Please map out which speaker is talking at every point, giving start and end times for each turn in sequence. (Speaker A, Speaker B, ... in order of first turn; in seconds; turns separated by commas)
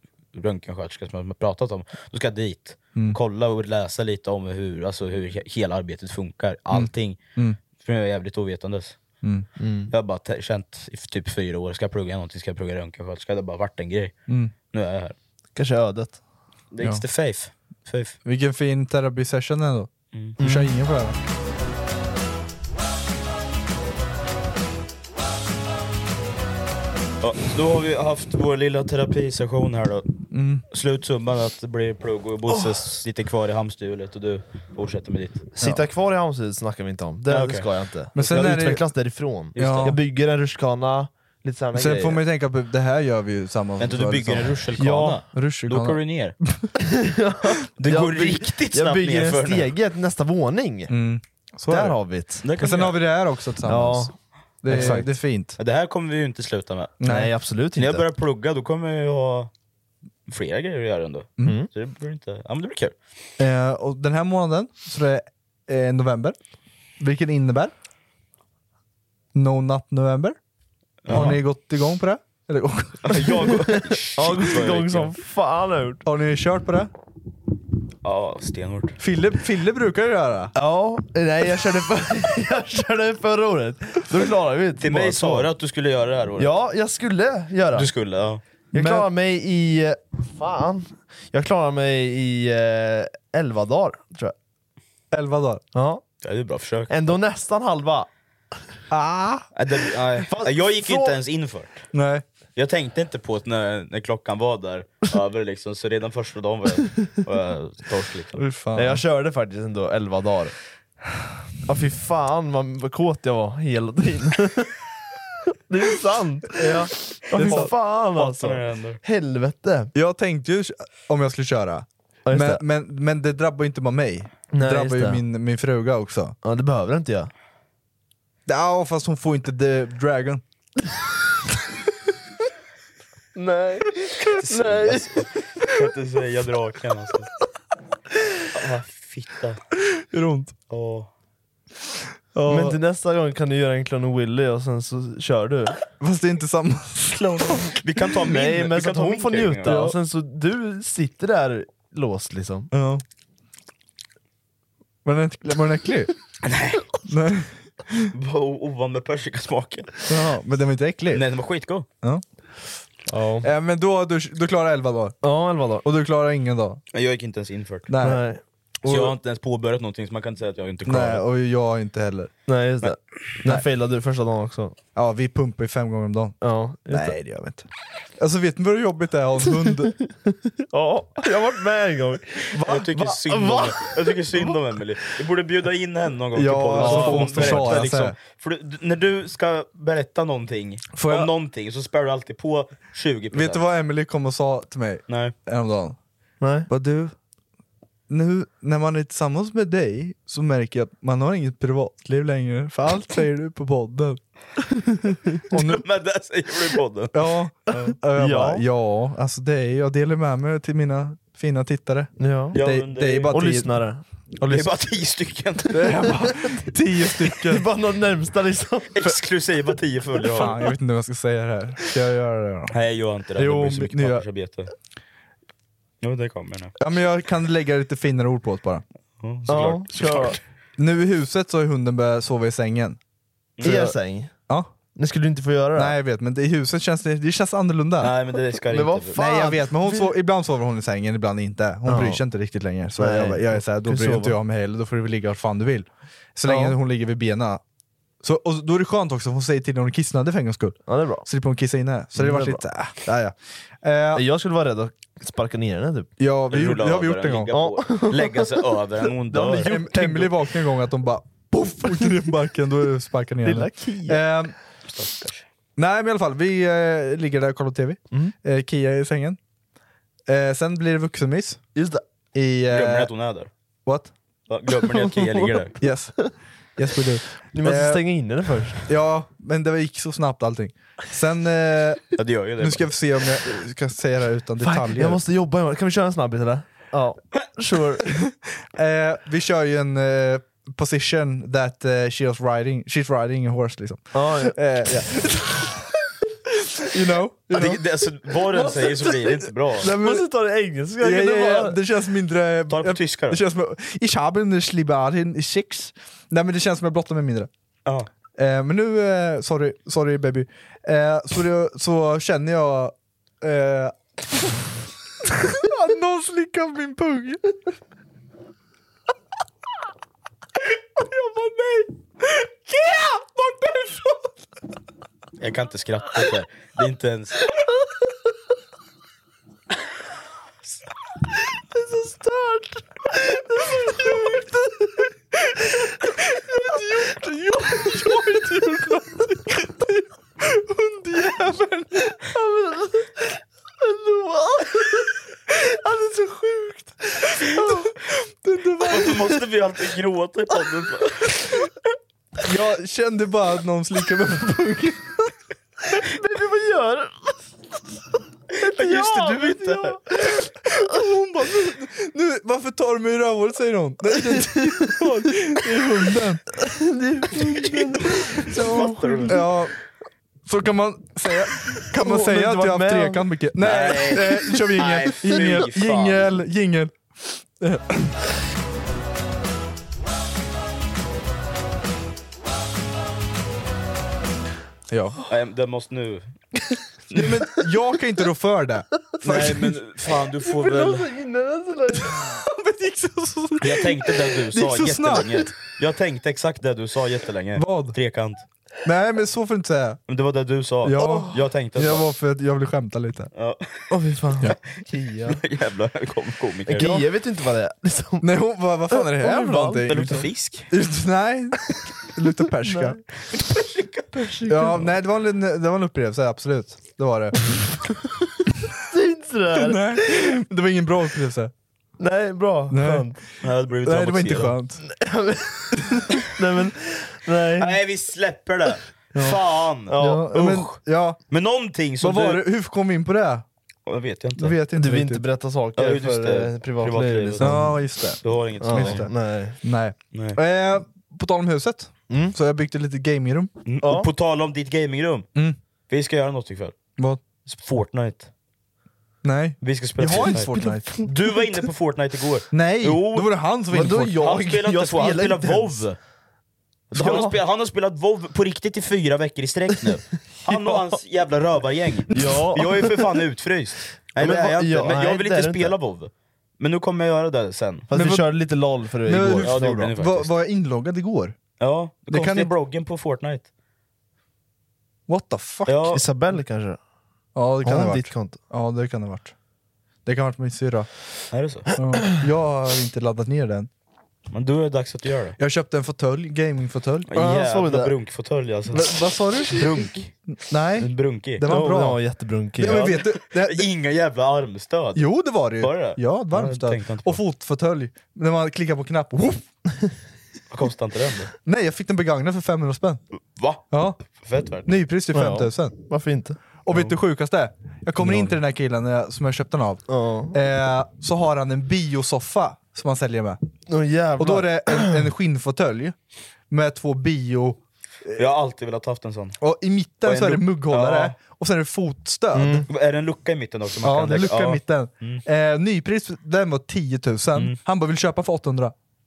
Speaker A: 0.3-7.2, Speaker B: 6.7-7.6, Speaker A: 7.8-9.0, Speaker C: 9.6-9.9, Speaker A: 9.9-14.2, Speaker B: 14.3-14.5, Speaker A: 14.7-15.2, Speaker C: 15.6-16.2, Speaker A: 16.7-18.2, Speaker B: 18.2-21.2, Speaker C: 20.4-20.7, Speaker A: 27.2-30.1, Speaker B: 30.3-30.6, Speaker A: 30.7-35.5, Speaker C: 35.6-42.2, Speaker A: 37.3-38.5, Speaker B: 38.2-38.8, Speaker A: 39.5-39.9, Speaker B: 39.6-40.0, Speaker B: 41.8-44.6, Speaker A: 43.8-46.4, Speaker C: 44.8-45.2, Speaker B: 45.3-46.0, Speaker C: 46.8-51.0, Speaker A: 47.8-49.7, Speaker B: 50.9-55.6, Speaker C: 51.7-52.4, Speaker A: 52.4-53.0, Speaker C: 53.6-55.1, Speaker A: 54.7-57.0, Speaker B: 57.0-57.3, Speaker C: 57.0-58.0, Speaker A: 57.8-59.5, Speaker A: 60.3-63.0, Speaker C: 61.4-61.7, Speaker B: 63.4-66.4, Speaker B: 67.0-67.7, Speaker B: 69.3-70.4, Speaker A: 71.0-71.4, Speaker B: 71.1-73.6, Speaker C: 71.1-71.4, Speaker A: 73.0-75.1, Speaker C: 73.8-76.0, Speaker B: 76.0-76.9, Speaker A: 78.0-79.0, Speaker B: 79.0-80.5, Speaker C: 80.5-85.5, Speaker A: 84.8-86.5, Speaker C: 86.4-87.9, Speaker A: 87.8-88.4, Speaker C: 88.7-94.3, Speaker B: 88.8-89.1, Speaker B: 95.1-95.6, Speaker C: 95.7-96.0, Speaker A: 96.2-97.2, Speaker C: 96.9-98.1, Speaker B: 98.9-99.5, Speaker A: 99.5-101.9, Speaker C: 100.3-101.2, Speaker B: 101.9-102.2, Speaker A: 102.6-108.4, Speaker B: 108.4-109.0, Speaker C: 108.7-110.5, Speaker C: 111.7-114.7, Speaker C: 115.7-119.9, Speaker B: 116.6-117.7, Speaker A: 117.4-119.0, Speaker B: 120.0-126.4, Speaker C: 122.3-122.6, Speaker C: 124.5-125.2, Speaker C: 126.4-127.3, Speaker B: 128.5-130.4, Speaker C: 133.3-135.2, Speaker A: 134.3-137.3, Speaker A: 138.5-139.6, Speaker B: 140.1-140.5, Speaker A: 140.7-141.1, Speaker B: 142.3-142.8, Speaker C: 142.5-145.8, Speaker B: 146.0-147.8, Speaker A: 147.2-149.9, Speaker C: 148.2-152.7, Speaker B: 149.7-150.0, Speaker B: 152.7-153.0, Speaker B: 155.1-156.1, Speaker A: 156.4-156.8, Speaker B: 157.1-158.1, Speaker A: 158.1-159.9, Speaker B: 160.1-161.3, Speaker A: 161.1-161.9, Speaker B: 163.4-165.2, Speaker C: 165.2-165.9, Speaker B: 165.8-166.8, Speaker A: 166.9-167.9, Speaker B: 167.9-168.2, Speaker C: 168.0-168.4, Speaker A: 168.8-171.2, Speaker B: 168.9-169.2, Speaker B: 170.9-172.3, Speaker C: 172.5-174.8, Speaker B: 174.9-177.7, Speaker C: 176.4-177.2, Speaker B: 178.2-180.0, Speaker C: 180.6-184.5, Speaker B: 182.5-183.2, Speaker A: 182.6-193.6, Speaker B: 186.3-188.2, Speaker C: 186.8-187.8, Speaker B: 190.9-191.3, Speaker B: 193.3-196.0, Speaker A: 195.1-195.3, Speaker C: 196.4-196.7, Speaker B: 196.7-197.2, Speaker B: 198.1-204.2, Speaker B: 205.5-205.8, Speaker A: 205.5-207.2, Speaker B: 207.1-213.8, Speaker A: 207.7-208.0, Speaker C: 208.1-208.7, Speaker C: 212.2-212.6, Speaker A: 212.5-213.4, Speaker C: 213.3-214.0, Speaker B: 214.4-214.7, Speaker A: 214.5-215.9, Speaker B: 215.7-217.7, Speaker C: 217.3-219.2, Speaker A: 218.9-220.6, Speaker B: 220.2-222.7, Speaker A: 222.7-224.7, Speaker B: 223.4-224.2, Speaker A: 226.0-226.8, Speaker B: 226.8-228.8, Speaker A: 229.2-230.4, Speaker C: 229.5-230.4, Speaker B: 230.8-233.0, Speaker A: 233.6-233.9, Speaker C: 233.6-234.3, Speaker C: 234.9-236.0, Speaker B: 235.8-238.2, Speaker A: 238.0-239.2, Speaker C: 238.7-240.1, Speaker B: 239.2-247.6, Speaker C: 241.9-242.2, Speaker C: 243.0-244.4, Speaker C: 246.5-246.8, Speaker B: 248.2-254.2, Speaker C: 250.9-251.3, Speaker C: 252.2-252.7, Speaker C: 254.1-256.1, Speaker B: 256.2-257.5, Speaker A: 256.5-259.7, Speaker C: 257.5-260.4, Speaker B: 259.6-264.6, Speaker C: 261.9-262.3, Speaker C: 263.4-264.3, Speaker A: 264.9-265.5, Speaker B: 265.8-269.4, Speaker B: 270.3-271.6, Speaker C: 271.8-272.0, Speaker B: 272.4-273.1, Speaker A: 272.7-273.5, Speaker B: 273.9-274.1, Speaker A: 274.5-275.8, Speaker C: 274.8-276.3, Speaker B: 275.8-278.0, Speaker C: 277.5-278.8, Speaker B: 278.9-285.2, Speaker A: 282.2-282.9, Speaker C: 284.6-288.1, Speaker B: 288.3-295.8, Speaker C: 294.1-294.6, Speaker B: 296.8-297.8, Speaker A: 297.5-299.9, Speaker C: 298.6-299.1, Speaker B: 299.8-300.3, Speaker C: 299.9-301.8, Speaker B: 301.0-307.5, Speaker A: 302.7-303.4, Speaker B: 308.4-313.9, Speaker B: 315.2-317.6, Speaker B: 321.0-324.2, Speaker A: 325.4-327.4, Speaker C: 331.7-334.5, Speaker B: 333.7-334.5, Speaker B: 335.4-342.3, Speaker C: 337.7-338.2, Speaker C: 342.3-343.1, Speaker C: 343.8-345.1, Speaker B: 345.5-349.3, Speaker C: 347.6-347.9, Speaker A: 348.8-351.6, Speaker B: 352.4-355.3, Speaker C: 355.9-357.4, Speaker A: 358.5-360.0, Speaker C: 358.6-361.1, Speaker B: 360.7-366.5, Speaker C: 364.1-365.2, Speaker C: 366.6-369.5, Speaker A: 367.6-369.3, Speaker B: 369.3-369.7, Speaker B: 370.5-378.2, Speaker C: 371.9-373.2, Speaker A: 373.6-376.4, Speaker B: 384.9-385.2, Speaker A: 385.3-386.3, Speaker B: 387.1-389.8, Speaker A: 389.2-391.1, Speaker C: 390.4-392.4, Speaker B: 392.0-395.5, Speaker A: 393.6-398.4, Speaker B: 397.6-398.0, Speaker B: 398.8-400.0, Speaker A: 400.1-402.1, Speaker B: 400.8-403.3, Speaker C: 401.0-401.4, Speaker A: 403.3-403.9, Speaker C: 403.9-405.4, Speaker A: 405.3-407.1, Speaker C: 406.7-408.3, Speaker B: 408.2-413.0, Speaker C: 408.9-410.3, Speaker A: 409.9-410.7, Speaker C: 412.6-413.0, Speaker A: 413.8-414.0, Speaker C: 414.1-415.0, Speaker B: 414.5-417.5, Speaker C: 418.9-420.2, Speaker B: 419.6-421.5, Speaker C: 422.0-423.2, Speaker B: 422.7-423.1, Speaker A: 423.4-424.6, Speaker B: 423.8-424.8, Speaker C: 424.8-427.8, Speaker A: 427.6-432.4, Speaker C: 429.1-430.3, Speaker B: 430.0-431.2, Speaker B: 432.0-433.4, Speaker A: 433.9-434.6, Speaker B: 434.4-435.2, Speaker C: 434.8-437.8, Speaker A: 435.8-439.1, Speaker B: 437.4-443.5, Speaker C: 438.6-439.6, Speaker A: 440.1-440.4, Speaker C: 442.1-442.4, Speaker A: 443.7-445.3, Speaker C: 443.8-444.1, Speaker A: 445.9-446.8, Speaker A: 447.5-448.3, Speaker B: 449.2-451.0, Speaker A: 449.6-450.5, Speaker C: 450.2-451.4, Speaker A: 451.0-456.0, Speaker B: 452.5-454.3, Speaker C: 453.7-455.9, Speaker A: 456.9-467.9, Speaker C: 456.9-457.4, Speaker C: 462.1-463.0, Speaker C: 464.1-465.8, Speaker C: 467.9-469.9, Speaker B: 467.9-468.4, Speaker B: 469.0-471.4, Speaker A: 469.4-470.3, Speaker A: 471.6-473.5, Speaker B: 472.1-472.5, Speaker B: 475.1-476.0, Speaker A: 475.7-476.0, Speaker C: 475.9-476.8, Speaker B: 477.4-479.3, Speaker C: 477.6-478.4, Speaker B: 480.1-480.9, Speaker A: 481.3-481.7, Speaker B: 481.8-483.7, Speaker A: 484.3-485.4, Speaker B: 485.4-487.1, Speaker A: 487.1-490.1, Speaker C: 487.1-487.9, Speaker B: 488.7-492.0, Speaker A: 490.8-491.5, Speaker C: 491.4-492.9, Speaker B: 492.6-493.7, Speaker A: 492.6-497.2, Speaker B: 495.0-499.5, Speaker A: 500.5-501.3, Speaker B: 501.4-503.0, Speaker A: 503.4-504.7, Speaker B: 503.7-504.0, Speaker B: 504.7-505.8, Speaker C: 505.1-506.9, Speaker B: 506.6-513.4, Speaker A: 508.0-508.3, Speaker C: 509.9-510.4, Speaker C: 513.7-515.1, Speaker B: 514.2-516.0, Speaker B: 516.5-517.6, Speaker A: 518.2-519.4, Speaker B: 519.4-522.7, Speaker A: 520.0-521.2, Speaker C: 522.3-522.7, Speaker A: 522.7-525.2, Speaker B: 523.8-528.7